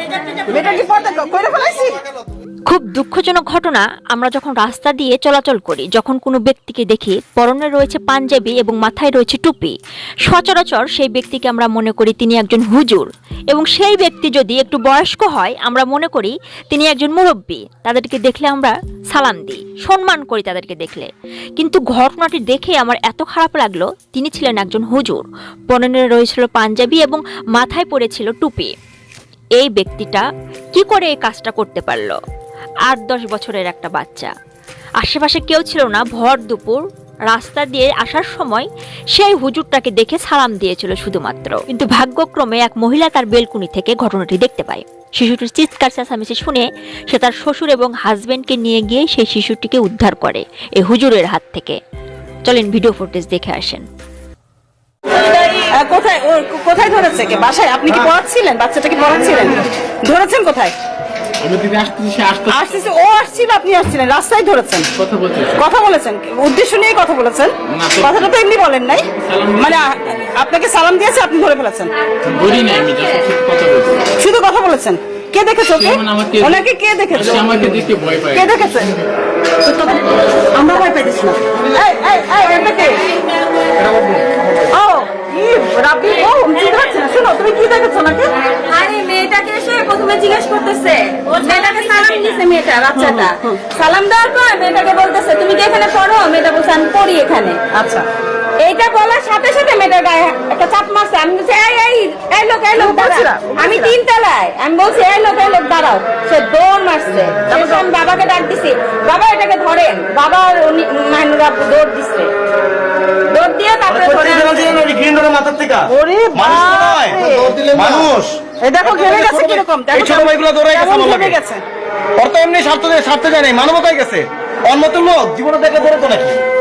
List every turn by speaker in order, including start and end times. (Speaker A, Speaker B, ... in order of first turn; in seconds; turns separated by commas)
Speaker A: 0.4-2.0, Speaker B: 2.7-9.8, Speaker B: 10.3-28.7, Speaker B: 29.6-32.2, Speaker B: 32.9-34.3, Speaker B: 35.0-51.8, Speaker B: 52.5-53.8, Speaker A: 55.2-60.7, Speaker C: 61.4-62.8, Speaker A: 62.5-64.9, Speaker C: 65.0-65.6, Speaker A: 65.6-71.9, Speaker C: 67.7-68.3, Speaker C: 69.1-69.9, Speaker C: 72.2-73.9, Speaker A: 74.2-77.6, Speaker C: 75.7-76.6, Speaker C: 77.1-78.5, Speaker A: 78.3-78.9, Speaker A: 79.6-83.0, Speaker D: 83.9-84.4, Speaker A: 84.7-88.3, Speaker E: 88.5-97.6, Speaker A: 92.9-93.6, Speaker A: 97.7-98.0, Speaker E: 98.6-112.3, Speaker A: 102.8-104.0, Speaker A: 107.5-107.8, Speaker E: 113.3-114.7, Speaker D: 113.9-121.4, Speaker A: 115.9-117.6, Speaker A: 118.6-121.6, Speaker D: 122.2-126.4